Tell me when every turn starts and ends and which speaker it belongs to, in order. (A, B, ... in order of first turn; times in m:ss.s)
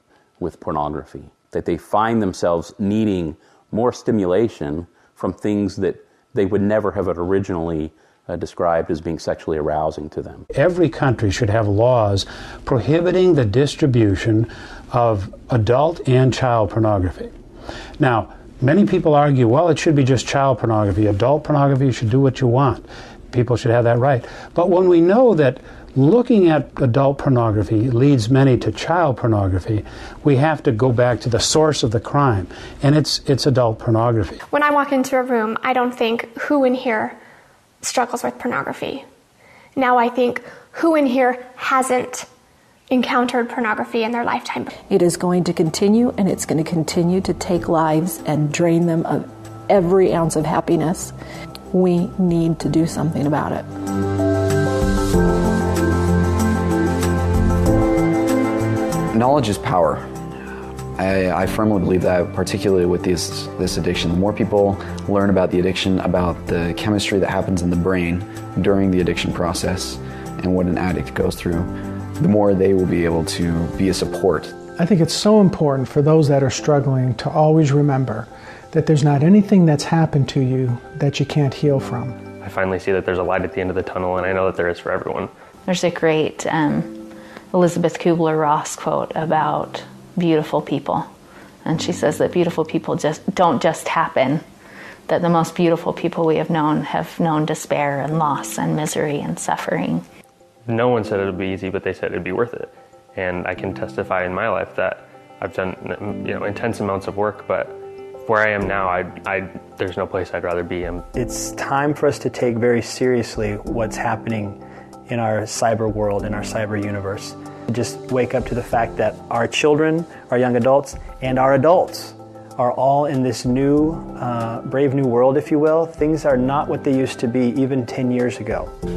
0:00.4-0:10.4 A
0:10.5-0:17.3 B
0:18.0-0:34.4 B
0:34.5-0:37.2 C
0:37.8-0:39.0 C
0:39.8-0:42.3 C
0:42.9-0:44.7 C
0:44.9-0:51.1 D
0:51.7-0:53.7 D
0:59.1-1:00.2 E
1:01.0-1:14.6 E
1:14.8-1:22.2 F
1:22.4-1:25.3 G
1:25.7-1:27.0 H
1:27.5-1:31.1 H
1:31.6-1:34.4 H
1:35.1-1:40.0 H
1:40.7-1:51.0 G
1:51.1-2:08.7 I